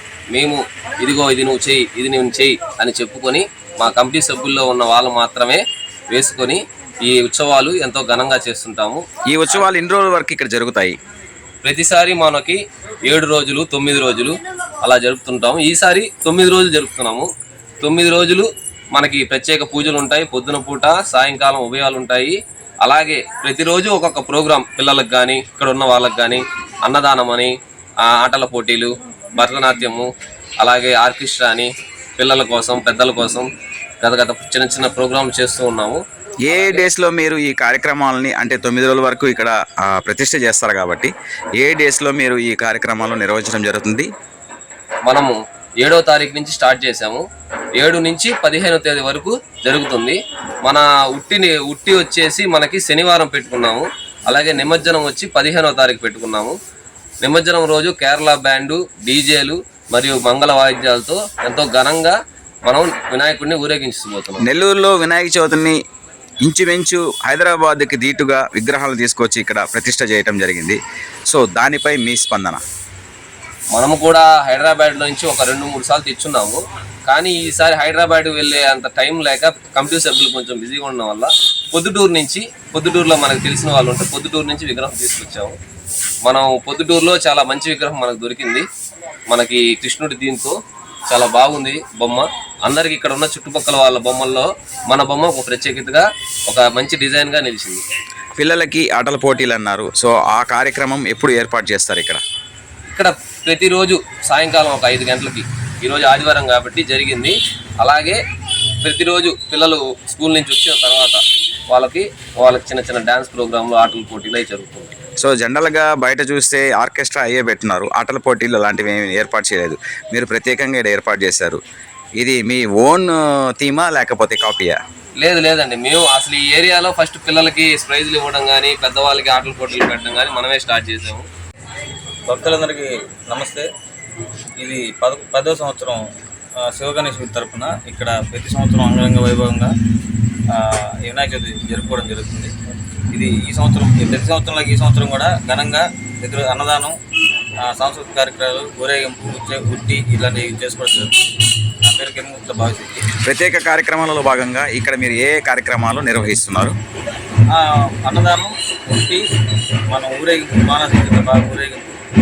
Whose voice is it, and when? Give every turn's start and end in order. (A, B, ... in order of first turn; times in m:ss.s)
0:00.3-0:09.0 A
0:09.3-0:11.0 B
0:11.6-0:17.3 A
0:17.8-0:27.5 A
0:28.1-0:30.1 A
0:30.6-0:33.5 A
0:34.0-0:36.0 A
0:36.5-0:44.1 B
0:45.1-0:47.2 A
0:47.8-0:56.6 A
0:57.2-1:02.2 A
1:02.7-1:04.5 A
1:04.4-1:05.8 B
1:06.4-1:10.8 B
1:11.3-1:12.6 B
1:13.7-1:25.6 A
1:26.2-1:28.7 A
1:29.3-1:30.6 A
1:31.1-1:37.8 A
1:38.4-1:42.2 B
1:42.9-1:48.2 A
1:48.8-1:54.9 A
1:55.2-2:01.6 B
2:02.2-2:04.8 B
2:05.2-2:11.3 A
2:12.3-2:13.7 C
2:14.6-2:16.0 C
2:16.7-2:19.7 C
2:20.5-2:22.5 C
2:23.1-2:27.0 C
2:27.6-2:31.1 C
2:31.8-2:33.1 C
2:33.2-2:36.8 B
2:37.5-2:39.2 C
2:39.9-2:41.9 C